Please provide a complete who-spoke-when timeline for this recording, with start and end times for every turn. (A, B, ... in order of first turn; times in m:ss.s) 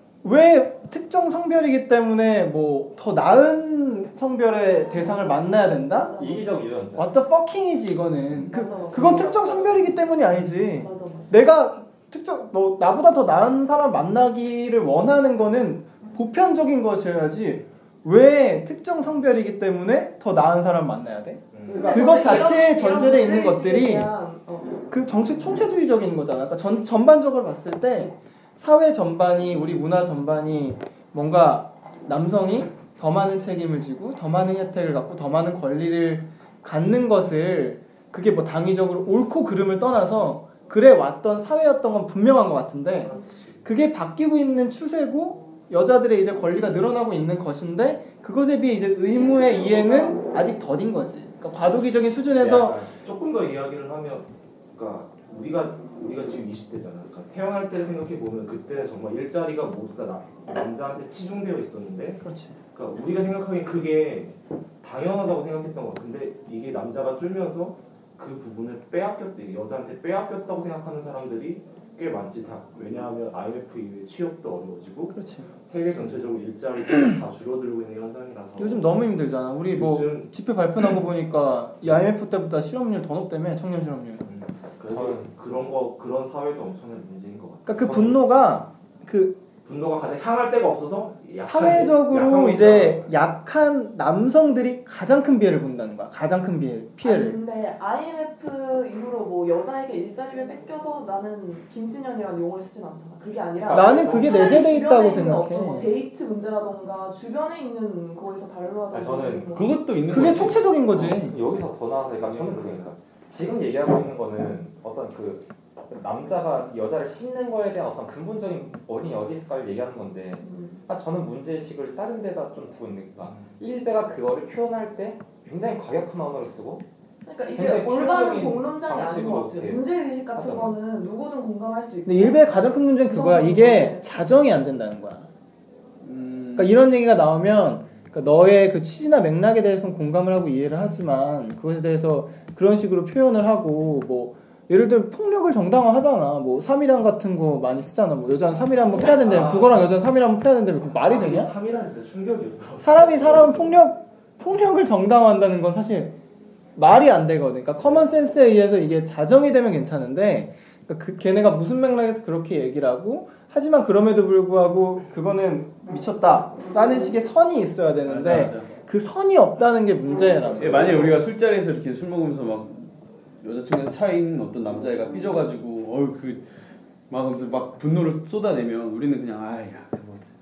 0:00.2-0:06.1 A
0:04.7-0:06.7 B
0:06.2-0:07.1 C
0:06.9-0:24.1 A
0:08.4-0:09.5 B
0:10.8-0:11.3 B
0:21.5-0:22.2 D
0:21.7-0:24.9 B
0:24.9-0:43.1 A
0:43.0-0:43.6 D
0:43.6-0:52.8 A
0:49.1-0:50.5 B
0:52.4-0:52.9 C
0:53.0-1:19.0 D
1:02.2-1:02.6 A
1:15.1-1:15.5 A
1:18.6-1:24.2 A
1:19.7-1:20.3 D
1:24.2-1:28.2 D
1:24.9-1:25.3 C
1:27.6-1:29.4 A
1:29.6-1:33.1 D
1:31.4-1:37.4 A
1:37.0-1:49.9 B
1:43.7-1:44.2 C
1:43.7-1:45.9 A
1:43.9-1:44.2 E
1:48.9-1:49.6 C
1:49.5-1:50.7 E
1:50.0-1:51.4 A
1:50.2-2:06.8 C
1:52.1-1:52.9 D
2:00.4-2:00.8 B
2:07.2-2:12.5 B
2:07.5-2:10.7 C
2:12.0-2:15.3 A
2:13.0-2:14.2 B
2:16.0-2:16.7 E
2:16.6-2:31.5 A
2:29.0-2:29.9 D
2:31.0-2:33.8 D
2:32.8-2:36.1 A
2:36.8-2:51.2 A
2:48.0-2:48.7 E
2:50.6-2:56.5 E
2:57.1-3:00.2 E